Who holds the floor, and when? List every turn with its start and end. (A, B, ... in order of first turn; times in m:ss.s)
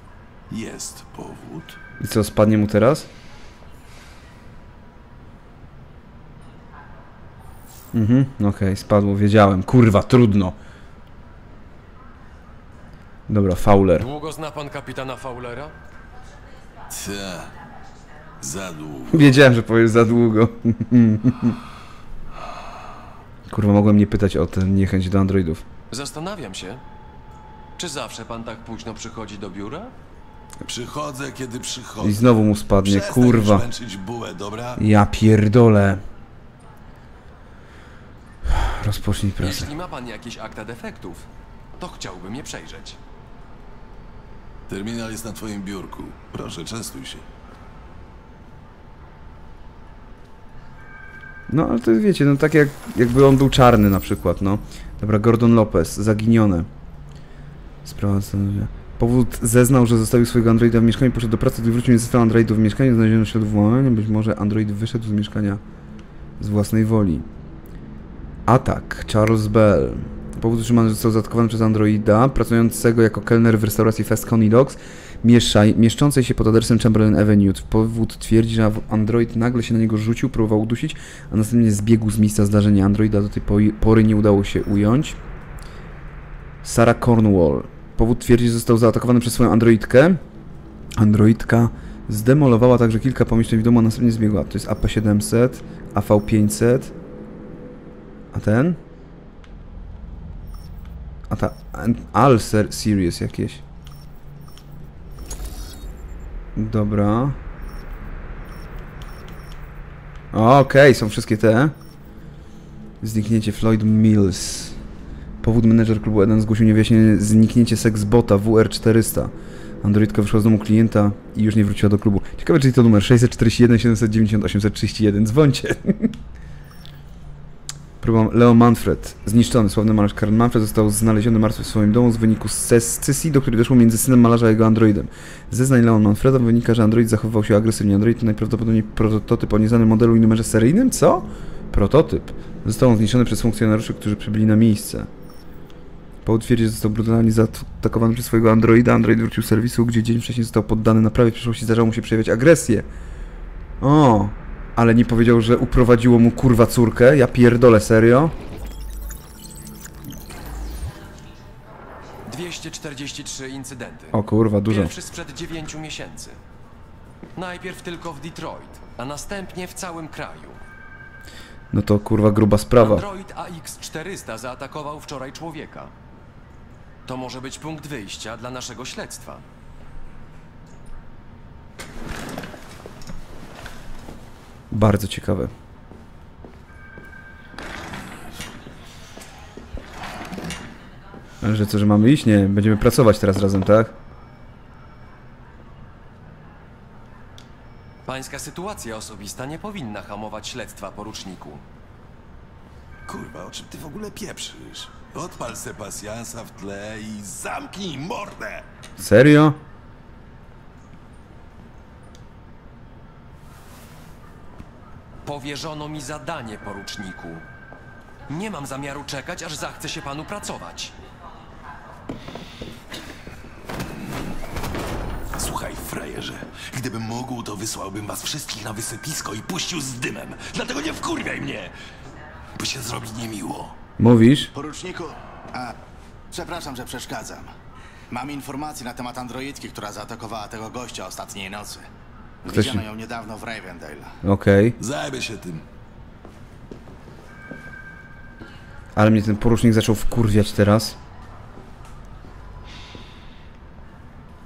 0:00.5-0:01.8 A
0:02.0-0:03.1 B
0:07.9-0:10.6 B
0:13.3-0:14.1 B
0:14.0-0:15.8 C
0:16.9-0:17.5 A
0:18.4-0:19.4 A
0:19.1-0:21.6 B
0:23.5-0:25.6 B
0:25.9-0:26.8 C
0:27.8-0:29.9 C
0:30.7-0:34.8 A
0:32.0-0:33.7 B
0:34.8-0:36.0 B
0:38.5-0:39.7 B
0:39.4-0:41.3 C
0:41.8-0:43.0 C
0:44.7-0:47.2 A
0:51.5-0:56.7 B
0:57.8-1:05.6 B
1:06.4-1:07.3 B
1:08.5-1:25.2 B
1:26.6-1:30.2 B
1:31.0-1:36.9 B
1:38.3-1:38.8 B
1:41.3-1:43.6 B
1:46.6-1:47.4 B
1:50.3-1:51.8 B
1:53.0-1:54.8 B
1:55.4-2:06.2 B
2:08.0-2:25.1 B
2:26.2-2:32.9 B
2:33.8-2:38.4 B
2:42.3-2:46.4 C
2:44.1-2:45.0 B
2:47.4-2:50.6 C
2:51.7-2:53.1 B
2:52.8-2:55.9 C
2:57.1-2:59.4 C
3:04.7-3:05.5 B
3:11.4-3:13.9 B
3:18.1-3:21.6 C
3:23.1-3:28.7 A
3:29.0-3:29.6 B
3:35.2-3:37.4 C
3:38.3-3:41.0 C
3:45.4-3:51.7 A
3:52.6-3:53.8 A
3:54.0-3:54.5 B
3:54.6-3:55.7 D
3:56.3-3:57.5 D
3:58.1-4:01.9 D
4:02.4-4:04.2 D
4:02.5-4:02.9 B
4:04.2-4:04.8 B
4:04.8-4:05.6 A
4:09.0-4:11.0 B